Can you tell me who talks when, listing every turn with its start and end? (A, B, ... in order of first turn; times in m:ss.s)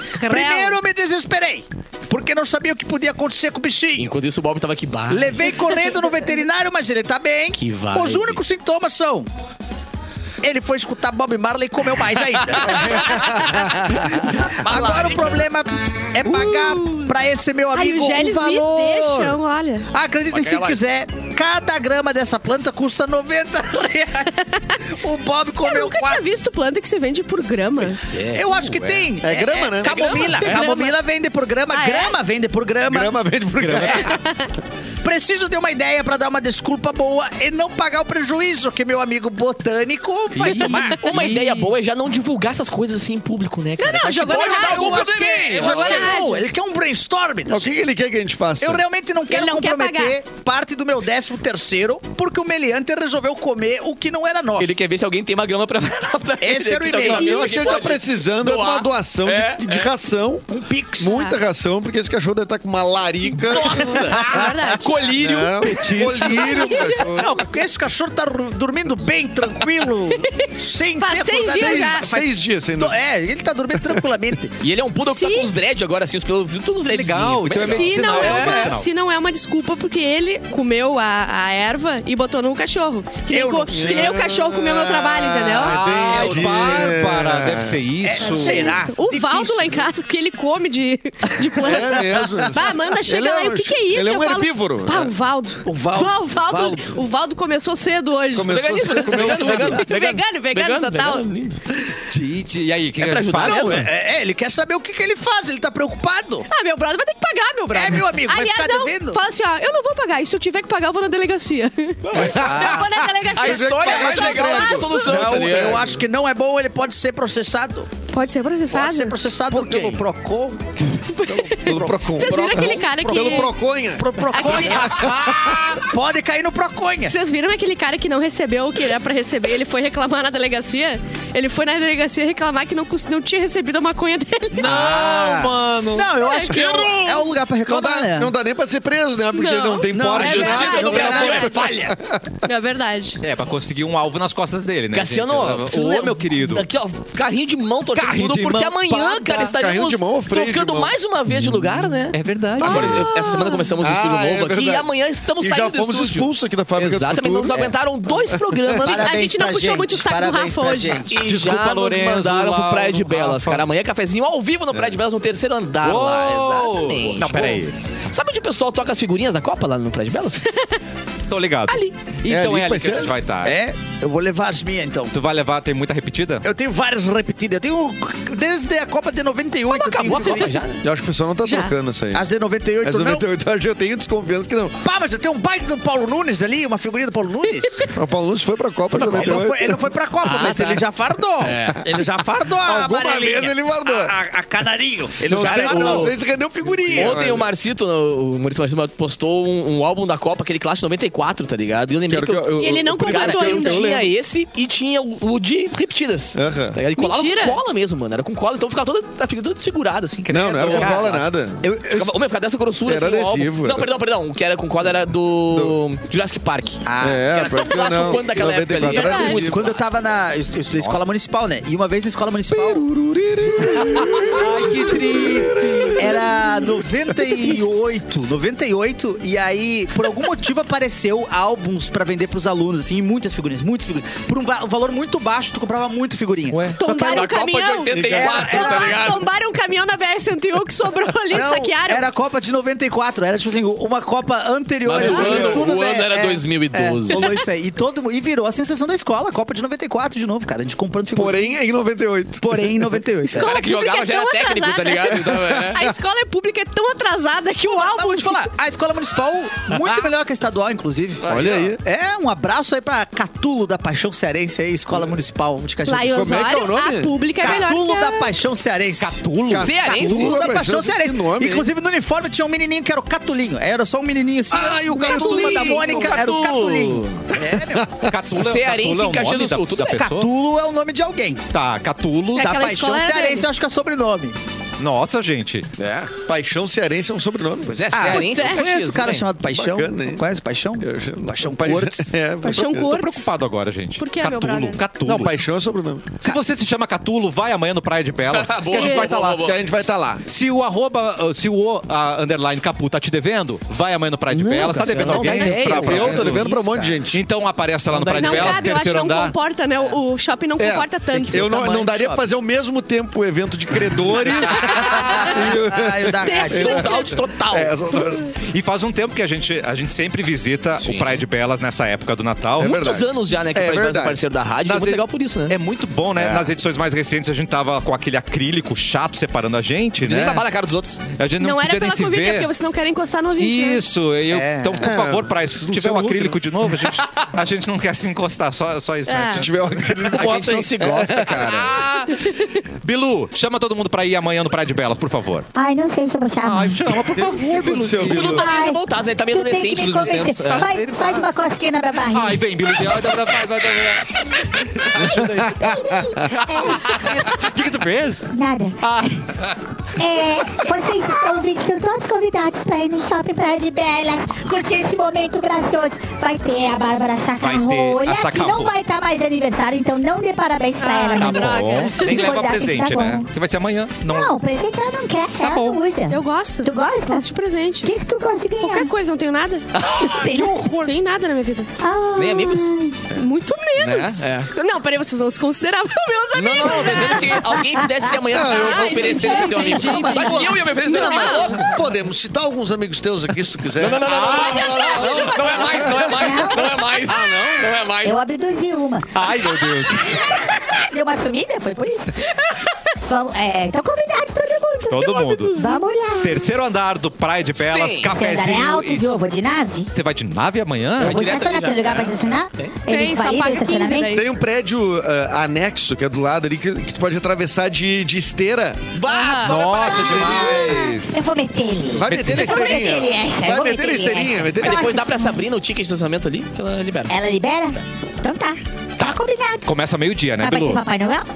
0:00.2-0:00.8 A
0:00.2-0:04.1 B
0:04.0-0:05.7 C
0:05.1-0:09.3 B
0:07.6-0:08.4 C
0:10.4-0:19.4 B
0:12.5-0:15.4 C
0:17.7-0:19.9 A
0:19.9-0:26.2 B
0:20.3-0:20.8 C
0:24.4-0:24.8 A
0:25.6-0:28.1 A
0:28.0-0:28.4 C
0:28.3-0:33.1 B
0:28.6-0:29.0 D
0:29.2-0:30.0 E
0:29.8-0:30.6 C
0:29.9-0:30.9 A
0:31.7-0:32.1 A
0:32.9-0:34.2 E
0:33.6-0:34.1 D
0:33.8-0:34.5 A
0:35.0-0:41.1 B
0:40.3-0:41.7 D
0:40.7-0:46.4 C
0:43.8-0:46.4 A
0:44.0-0:47.8 B
0:47.5-0:48.8 E
0:48.6-0:54.8 B
0:49.3-0:50.2 A
0:54.6-0:59.9 C
0:56.4-0:57.9 B
0:56.9-1:00.5 E
1:00.5-1:01.2 B
1:01.0-1:04.1 E
1:01.1-1:01.4 A
1:03.4-1:05.8 C
1:03.6-1:05.1 A
1:04.0-1:04.8 B
1:05.1-1:07.5 E
1:05.6-1:06.5 D
1:05.7-1:06.3 B
1:05.9-1:07.1 A
1:06.9-1:14.5 B
1:10.2-1:12.1 A
1:11.4-1:12.9 E
1:14.6-1:18.8 C
1:15.0-1:15.5 A
1:16.9-1:18.9 D
1:17.5-1:26.2 A
1:23.3-1:24.2 B
1:23.7-1:27.8 E
1:25.6-1:28.8 D
1:26.1-1:26.6 B
1:28.0-1:29.9 B
1:28.2-1:41.3 A
1:31.6-1:35.1 E
1:35.6-1:37.0 B
1:38.3-1:39.8 E
1:38.4-1:41.6 C
1:42.1-1:43.9 D
1:43.0-1:43.8 C
1:43.4-1:46.5 B
1:46.5-1:55.2 A
1:47.7-1:49.2 B
1:52.0-1:55.9 C
1:52.1-1:56.0 E
1:52.4-1:52.9 B
1:53.9-1:57.9 B
1:58.1-1:59.1 A
1:58.7-2:00.7 B
1:59.5-2:00.0 E
2:01.0-2:03.5 A
2:01.2-2:05.6 E
2:01.6-2:07.1 B
2:02.2-2:02.9 C
2:04.3-2:05.2 A
2:07.1-2:14.6 A
2:14.6-2:18.3 B
2:14.6-2:15.7 D
2:14.6-2:16.1 E
2:16.2-2:17.3 A
2:17.6-2:22.4 E
2:19.3-2:21.5 A
2:19.9-2:21.7 B
2:20.1-2:22.0 C
2:22.4-2:23.2 A
2:23.2-2:26.7 D
2:24.9-2:39.0 C
2:27.9-2:29.5 D
2:29.4-2:31.0 E
2:31.3-2:33.1 D
2:32.6-2:33.7 A
2:32.7-2:33.0 E
2:33.8-2:34.9 E
2:35.4-2:39.0 E
2:38.8-2:41.2 B
2:38.9-2:41.1 A
2:41.1-2:50.5 C
2:41.1-2:43.6 D
2:45.8-2:47.7 D
2:51.3-2:53.6 D
2:52.3-2:53.1 E
2:53.4-2:55.2 B
2:55.1-2:56.4 D
2:56.4-3:00.6 B
2:59.7-3:00.8 C
3:00.8-3:02.2 E
3:01.4-3:01.7 A
3:02.1-3:03.2 B
3:02.8-3:04.8 E
3:04.8-3:07.9 B
3:07.9-3:09.8 E
3:08.9-3:16.2 B
3:09.0-3:09.4 C
3:10.2-3:10.9 C
3:11.4-3:11.9 C
3:12.6-3:14.1 E
3:15.2-3:17.5 E
3:15.3-3:16.2 C
3:16.9-3:31.1 C
3:16.9-3:17.3 B
3:22.1-3:24.1 E
3:22.6-3:23.9 A
3:26.3-3:26.8 E
3:27.0-3:27.6 A
3:30.2-3:31.3 D
3:30.3-3:31.6 E
3:30.6-3:31.0 B
3:31.6-3:32.1 B
3:31.9-3:39.8 C
3:32.8-3:33.9 E
3:36.8-3:37.3 B
3:37.0-3:39.7 E
3:38.8-3:39.4 A
3:39.3-3:42.8 B
3:42.5-3:46.2 E
3:43.7-3:46.1 D
3:43.8-3:44.5 B
3:45.9-3:57.3 B
3:56.5-3:56.8 D
3:56.8-4:02.0 A
3:57.0-3:59.2 C
3:57.9-3:58.7 E
3:58.1-3:59.1 B
4:01.3-4:11.6 B
4:04.8-4:07.3 C
4:04.9-4:05.6 E
4:11.1-4:12.8 E
4:12.4-4:13.6 B
4:13.2-4:18.5 A
4:13.3-4:15.9 C
4:17.6-4:21.2 B
4:21.2-4:21.7 C
4:21.2-4:21.8 E
4:21.8-4:26.5 B
4:25.9-4:28.3 A
4:26.0-4:27.6 E
4:27.4-4:38.1 B
4:29.0-4:29.7 D
4:29.4-4:31.7 E
4:29.5-4:30.5 C
4:34.5-4:36.2 E
4:34.9-4:36.1 A
4:35.2-4:37.2 C
4:37.3-4:38.1 E
4:38.1-4:40.3 D
4:38.3-4:40.1 C
4:39.9-4:41.5 B
4:41.5-4:42.5 D
4:42.4-4:43.5 A
4:42.4-4:44.4 B
4:44.8-4:45.6 D
4:45.8-4:46.1 C
4:46.3-4:47.8 E
4:47.6-4:49.3 C
4:47.9-4:52.2 B
4:48.1-4:48.6 A
4:49.5-4:50.2 E
4:50.8-4:52.9 E
4:52.4-4:53.3 A
4:52.6-4:55.4 D
4:54.0-4:54.8 A
4:55.0-4:56.1 E
4:56.2-4:59.5 D
4:58.3-4:59.6 C
4:58.7-4:59.0 A
4:59.0-5:00.3 E
5:00.2-5:06.5 D
5:04.3-5:07.0 C
5:04.6-5:07.2 E
5:07.1-5:09.3 D
5:07.9-5:08.7 C
5:08.2-5:11.5 A
5:10.6-5:18.3 E
5:11.1-5:12.3 B
5:14.5-5:16.9 B
5:14.6-5:15.1 D
5:16.2-5:17.2 A
5:16.5-5:17.8 C
5:18.4-5:22.8 D
5:20.8-5:21.2 C
5:22.6-5:24.2 E
5:22.6-5:25.6 C
5:24.6-5:30.4 D
5:26.1-5:26.5 C
5:30.0-5:31.0 C
5:31.1-5:32.5 D
5:31.4-5:33.8 A
5:33.4-5:40.4 D
5:34.3-5:34.9 B
5:34.8-5:36.5 E
5:39.0-5:39.4 A
5:39.3-5:41.8 E
5:40.0-5:41.5 C
5:41.1-5:45.5 D
5:42.1-5:42.6 A
5:45.5-5:46.9 F
5:46.4-5:48.4 D
5:47.0-5:48.5 E
5:47.8-5:50.7 C
5:48.2-5:53.1 F
5:50.4-5:51.2 D
5:52.0-5:58.3 D
5:54.4-5:54.9 F
5:55.0-5:56.3 E
5:55.6-5:57.4 F
5:58.3-5:59.2 F
5:58.8-5:59.5 D
6:00.0-6:13.3 F
6:07.4-6:08.7 D
6:10.8-6:12.3 A
6:11.2-6:14.3 D
6:14.0-6:17.3 F
6:15.4-6:15.8 D
6:16.1-6:17.9 A
6:17.8-6:18.9 F
6:18.6-6:19.7 A
6:19.8-6:20.9 D
6:20.0-6:20.7 F
6:20.8-6:21.7 A
6:21.8-6:23.0 F
6:22.2-6:22.7 C
6:23.1-6:27.4 A
6:23.8-6:24.5 C
6:26.4-6:31.8 C
6:28.3-6:37.8 E
6:28.3-6:31.7 A
6:33.8-6:38.2 C
6:34.1-6:35.7 A
6:36.1-6:36.7 F
6:38.0-6:42.2 F
6:39.1-6:40.2 D
6:43.0-6:46.4 F
6:44.9-6:45.6 D
6:44.9-6:45.8 A
6:46.2-6:49.2 D
6:47.6-6:48.1 C
6:48.1-6:49.9 F
6:49.9-6:51.3 D
6:51.0-6:52.8 C
6:51.0-6:54.2 F
6:52.9-6:54.3 A
6:54.1-6:58.8 E
6:58.9-7:00.8 C
6:59.0-6:59.7 A
6:59.4-7:01.2 D
6:59.9-7:05.4 F
7:01.9-7:05.0 E
7:02.1-7:02.5 D
7:04.6-7:07.2 C
7:07.1-7:09.7 F
7:09.6-7:10.8 D
7:10.4-7:11.2 F